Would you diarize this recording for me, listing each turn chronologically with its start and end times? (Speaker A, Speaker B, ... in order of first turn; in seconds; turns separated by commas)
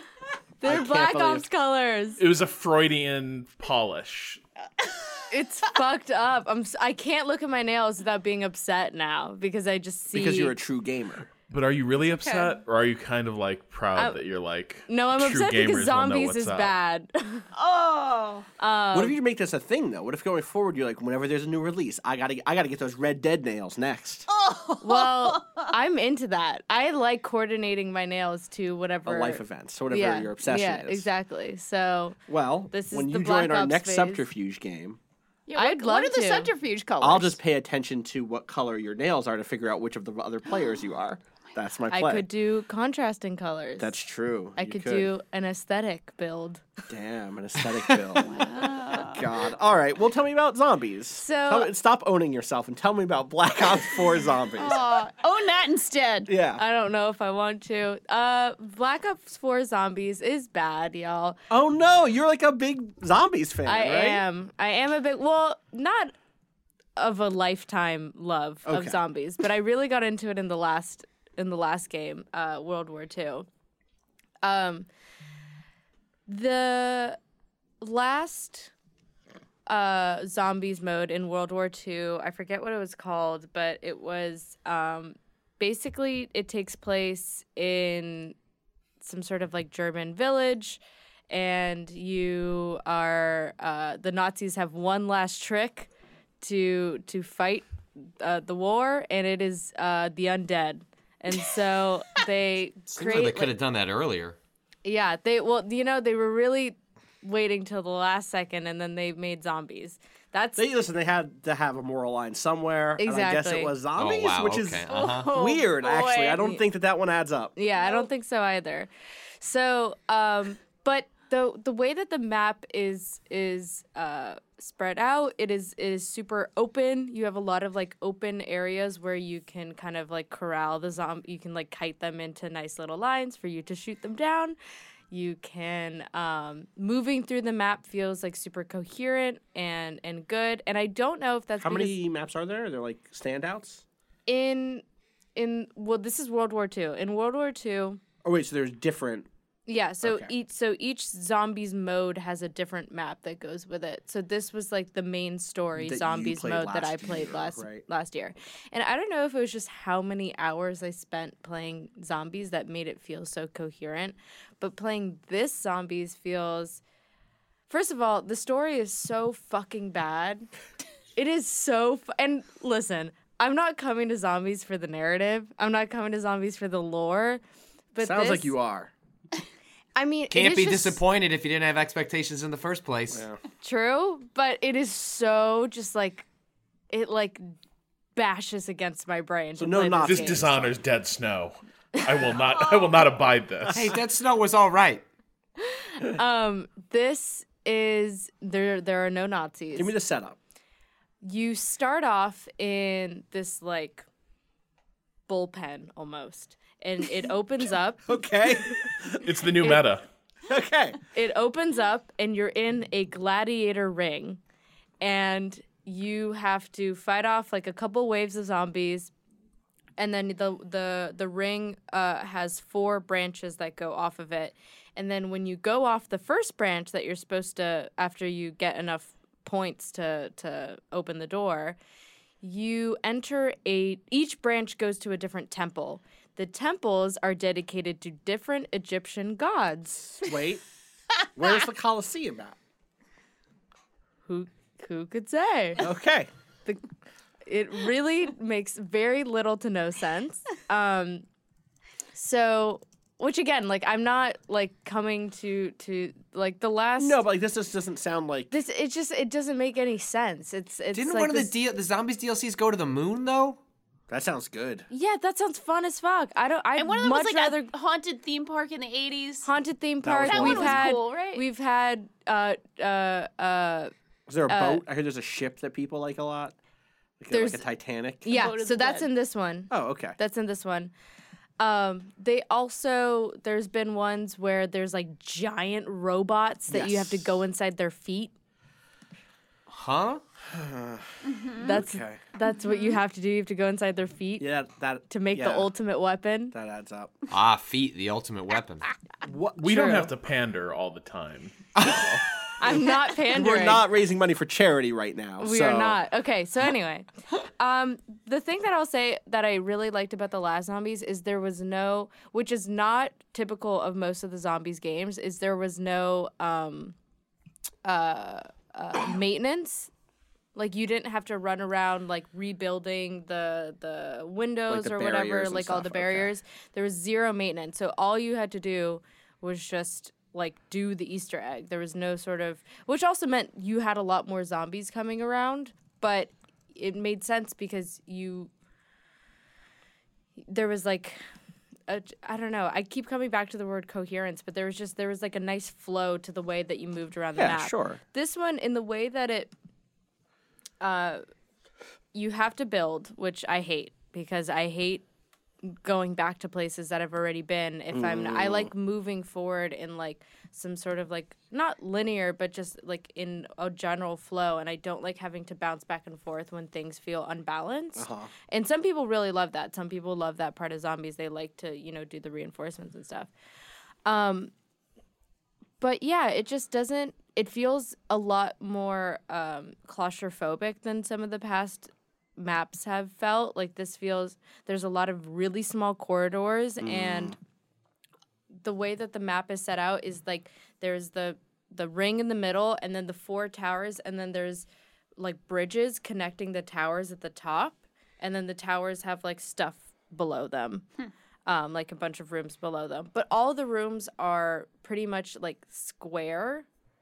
Speaker A: 0.6-2.2, Speaker B: 0.6-1.5, Speaker C: 2.2-4.4, Speaker A: 5.3-10.6, Speaker B: 10.1-11.3, Speaker C: 11.5-16.7, Speaker D: 12.1-12.6, Speaker A: 14.9-17.5, Speaker D: 17.5-18.5, Speaker A: 18.6-19.2, Speaker B: 18.9-24.3, Speaker D: 24.3-25.7, Speaker A: 24.8-34.3, Speaker B: 29.1-31.1, Speaker B: 32.3-35.0, Speaker D: 35.5-37.4, Speaker A: 35.6-36.5, Speaker B: 37.0-42.3, Speaker A: 41.9-43.9, Speaker B: 43.8-45.1, Speaker A: 44.6-46.6, Speaker B: 46.9-54.8, Speaker D: 48.2-49.2, Speaker A: 51.2-51.7, Speaker D: 54.6-56.3, Speaker B: 56.3-56.6, Speaker A: 56.6-61.4, Speaker B: 61.5-64.2, Speaker A: 63.7-66.1, Speaker A: 67.0-73.5, Speaker B: 68.7-69.0, Speaker A: 74.4-74.9, Speaker A: 76.3-77.2, Speaker A: 77.8-78.7, Speaker A: 79.7-88.3, Speaker A: 89.0-95.9, Speaker A: 96.4-97.7, Speaker A: 98.2-103.5, Speaker E: 103.0-104.4, Speaker A: 104.8-110.7, Speaker B: 110.6-117.5, Speaker A: 113.0-113.7, Speaker E: 114.0-115.3, Speaker D: 114.9-116.6, Speaker A: 117.6-134.6, Speaker A: 135.1-142.0, Speaker B: 141.6-143.8, Speaker A: 144.3-144.8, Speaker A: 145.4-148.0, Speaker B: 148.2-149.3, Speaker A: 149.7-166.8, Speaker B: 150.0-150.3, Speaker B: 155.8-157.8, Speaker A: 167.7-170.5, Speaker A: 171.2-177.4, Speaker A: 177.9-178.5, Speaker B: 178.0-178.9, Speaker A: 180.0-181.0, Speaker E: 180.3-183.2, Speaker B: 183.1-183.4, Speaker A: 183.6-186.3, Speaker A: 186.9-187.5, Speaker A: 188.2-190.4, Speaker B: 189.6-190.8, Speaker C: 190.0-194.0, Speaker E: 193.7-195.0, Speaker A: 195.6-199.9, Speaker B: 199.8-200.4, Speaker A: 201.2-204.1, Speaker A: 205.3-208.9, Speaker B: 208.1-209.2, Speaker C: 209.2-210.0, Speaker B: 210.5-211.0, Speaker A: 211.1-214.4, Speaker A: 215.0-219.1, Speaker A: 220.0-231.8, Speaker A: 232.4-240.2, Speaker B: 240.2-240.6, Speaker B: 241.3-242.6, Speaker A: 244.3-245.8, Speaker B: 245.8-246.3, Speaker A: 247.5-251.2, Speaker A: 252.2-257.2, Speaker B: 257.0-258.5, Speaker A: 258.5-261.5, Speaker E: 260.9-263.6, Speaker B: 264.1-264.9, Speaker A: 264.9-267.7, Speaker D: 266.8-269.5, Speaker A: 269.4-273.9, Speaker B: 270.0-270.9, Speaker D: 270.2-271.4, Speaker B: 274.3-276.6, Speaker A: 274.5-274.8, Speaker B: 277.2-278.3, Speaker A: 277.3-277.6, Speaker A: 278.2-280.9, Speaker D: 278.3-279.1, Speaker B: 279.7-280.2, Speaker A: 281.6-288.3, Speaker B: 286.7-287.4, Speaker E: 289.7-290.2, Speaker B: 290.5-291.1, Speaker D: 291.2-291.8, Speaker A: 291.6-294.5, Speaker B: 291.7-292.2, Speaker D: 292.7-292.9, Speaker B: 294.4-295.7, Speaker A: 295.1-296.5, Speaker B: 296.5-297.1, Speaker E: 297.3-298.9, Speaker B: 299.2-300.1, Speaker C: 299.6-302.3, Speaker A: 302.6-303.8, Speaker B: 303.3-306.0, Speaker A: 305.4-307.1, Speaker A: 307.6-316.9, Speaker A: 317.8-319.9, Speaker A: 320.6-338.5, Speaker B: 324.7-326.3, Speaker A: 340.5-341.2, Speaker A: 341.9-349.5, Speaker B: 347.4-348.0, Speaker A: 350.8-351.2, Speaker A: 352.1-355.0, Speaker A: 355.6-373.3, Speaker B: 357.9-358.7, Speaker B: 368.0-368.3, Speaker A: 374.1-374.5, Speaker A: 375.8-387.4, Speaker B: 386.8-387.4, Speaker A: 388.6-400.9, Speaker A: 401.5-406.7